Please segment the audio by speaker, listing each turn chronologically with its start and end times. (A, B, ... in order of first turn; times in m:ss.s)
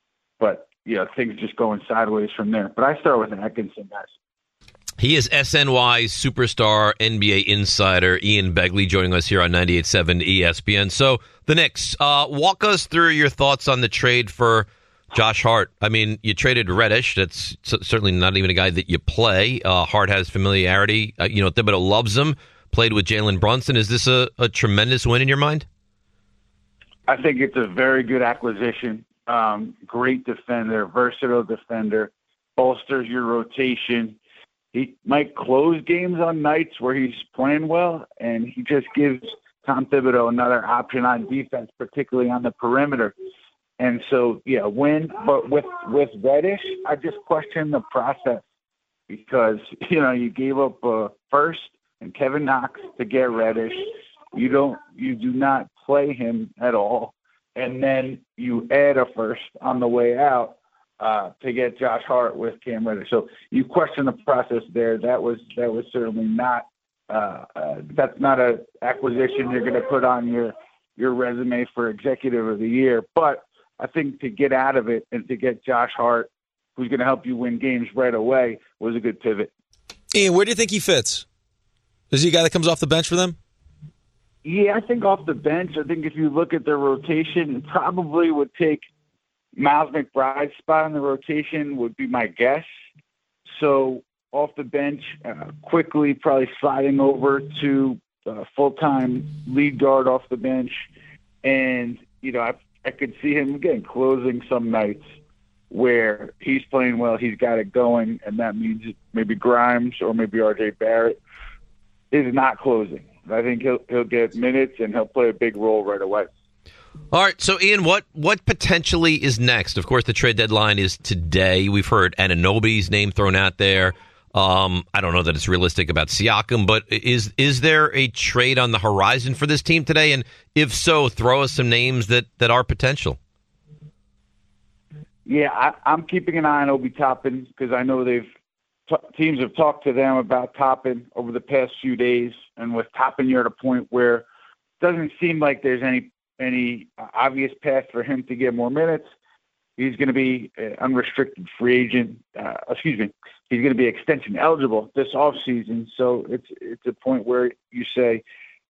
0:00.4-0:04.1 A
0:05.0-0:25.6 B
0:27.1-0:34.2 A
0:34.7-0:43.1 A
0:43.8-0:48.4 A
0:49.1-1:19.5 A
1:20.1-1:21.2 C
1:22.1-1:23.4 C
1:24.4-1:28.8 A
1:29.6-1:32.7 A
1:33.5-1:40.9 A
1:41.4-1:45.1 A
1:45.7-1:51.2 A
1:52.1-1:56.3 A
1:57.1-2:13.2 B
2:15.2-2:18.3 A
2:18.9-2:24.2 A
2:24.8-2:29.1 A
2:29.8-2:38.2 A